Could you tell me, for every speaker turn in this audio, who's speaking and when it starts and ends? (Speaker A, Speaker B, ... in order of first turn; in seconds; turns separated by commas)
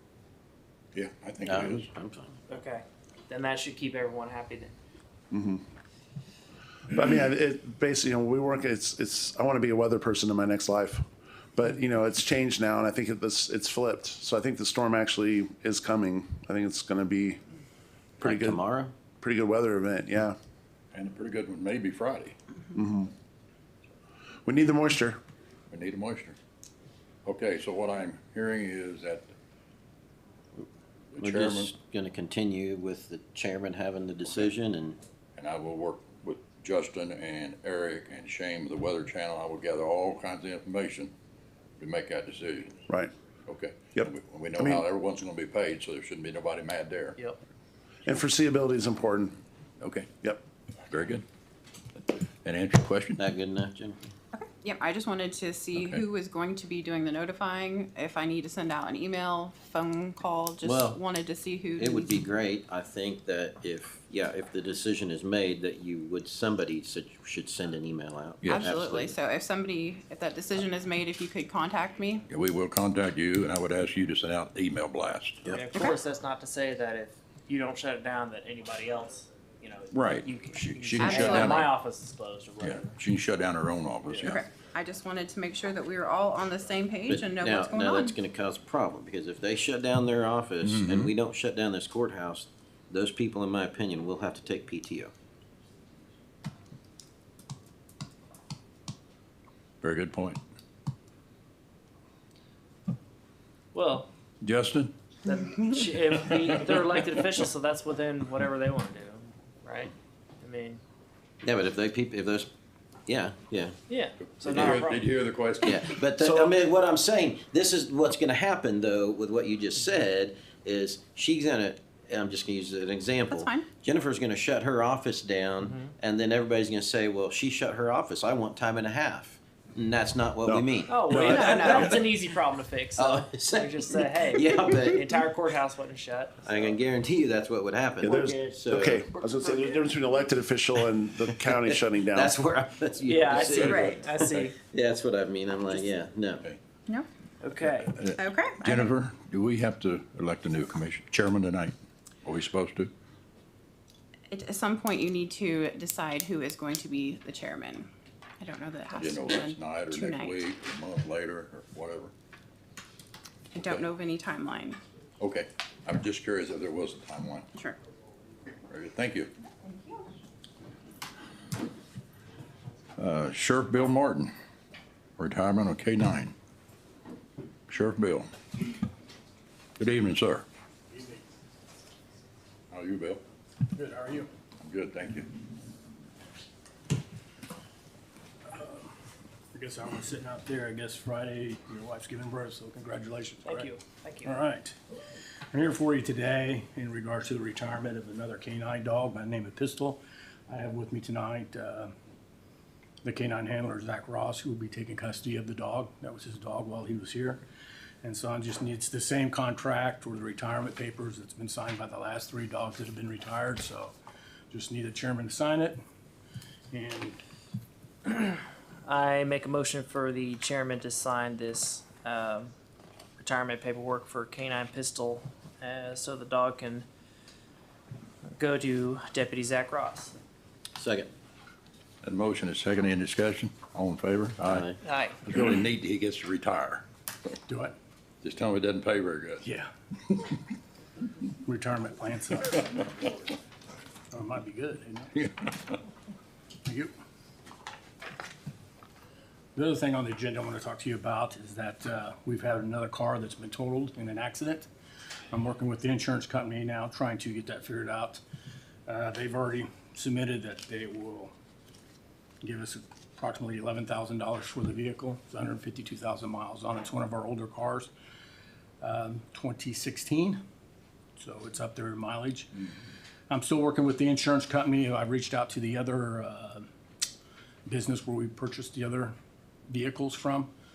Speaker A: 0.9-1.9, Speaker B: 1.4-2.4, Speaker C: 2.5-4.7, Speaker D: 5.3-5.6, Speaker D: 6.9-17.4, Speaker D: 18.2-18.6, Speaker B: 18.2-18.9, Speaker D: 19.2-20.4, Speaker A: 20.9-22.4, Speaker D: 22.7-23.1, Speaker D: 24.4-25.2, Speaker A: 25.7-26.4, Speaker A: 27.2-29.3, Speaker A: 31.1-31.7, Speaker B: 31.2-35.0, Speaker A: 35.4-41.1, Speaker A: 41.8-42.9, Speaker D: 42.9-43.1, Speaker A: 43.5-47.2, Speaker D: 43.9-44.8, Speaker D: 48.0-49.4, Speaker A: 49.8-50.1, Speaker A: 50.9-51.2, Speaker A: 52.4-53.2, Speaker B: 53.2-54.0, Speaker E: 54.3-62.3, Speaker B: 60.6-61.0, Speaker B: 61.8-69.1, Speaker A: 68.4-68.7, Speaker E: 68.4-72.2, Speaker A: 72.3-75.5, Speaker C: 75.5-82.9, Speaker A: 79.9-81.7, Speaker E: 81.0-81.7, Speaker A: 82.6-84.4, Speaker E: 84.2-88.2, Speaker B: 87.1-95.1, Speaker A: 90.6-91.1, Speaker A: 99.8-100.4, Speaker C: 103.7-104.1, Speaker A: 104.4-104.9, Speaker C: 105.2-110.8, Speaker B: 111.4-112.5, Speaker B: 113.0-113.8, Speaker C: 113.9-115.0, Speaker A: 114.2-116.5, Speaker B: 115.6-132.0, Speaker E: 123.3-123.7, Speaker C: 125.6-125.9, Speaker D: 130.4-131.9, Speaker C: 130.9-136.8, Speaker B: 132.9-135.2, Speaker B: 136.4-138.9, Speaker D: 138.0-142.4, Speaker C: 138.0-138.6, Speaker C: 139.2-139.8, Speaker B: 141.7-146.4, Speaker C: 143.0-144.6, Speaker E: 143.6-144.0, Speaker C: 147.4-147.9, Speaker A: 147.6-152.9, Speaker E: 148.2-148.9, Speaker E: 154.3-160.4, Speaker A: 159.0-162.1, Speaker E: 163.5-164.8, Speaker A: 165.2-167.5, Speaker A: 168.7-169.3, Speaker E: 169.6-169.9, Speaker A: 173.0-174.3, Speaker A: 175.2-176.3, Speaker A: 177.7-178.3, Speaker A: 179.8-180.4, Speaker F: 180.9-181.2, Speaker A: 182.7-183.2, Speaker F: 183.7-184.3, Speaker A: 184.6-185.3, Speaker F: 188.5-188.9, Speaker F: 189.5-194.8, Speaker C: 193.4-194.4, Speaker F: 195.5-201.9, Speaker F: 203.0-207.4, Speaker F: 208.0-213.9, Speaker F: 214.5-215.8, Speaker F: 216.7-217.2, Speaker C: 218.1-222.5, Speaker C: 223.2-226.8, Speaker C: 228.4-230.2, Speaker B: 230.8-231.1, Speaker A: 232.0-234.7, Speaker B: 234.5-234.8, Speaker C: 234.8-235.2, Speaker A: 235.2-236.8, Speaker F: 237.5-237.7, Speaker A: 238.2-239.4, Speaker F: 239.4-239.7, Speaker F: 241.4-242.9, Speaker F: 244.1-245.2, Speaker A: 245.2-245.5, Speaker F: 246.7-246.9, Speaker F: 249.5-254.7, Speaker F: 255.3-258.2, Speaker F: 258.9-261.3, Speaker F: 262.4-267.9, Speaker F: 268.8-270.4, Speaker F: 271.2-272.7, Speaker F: 273.3-276.6, Speaker F: 277.7-279.1, Speaker F: 279.7-280.5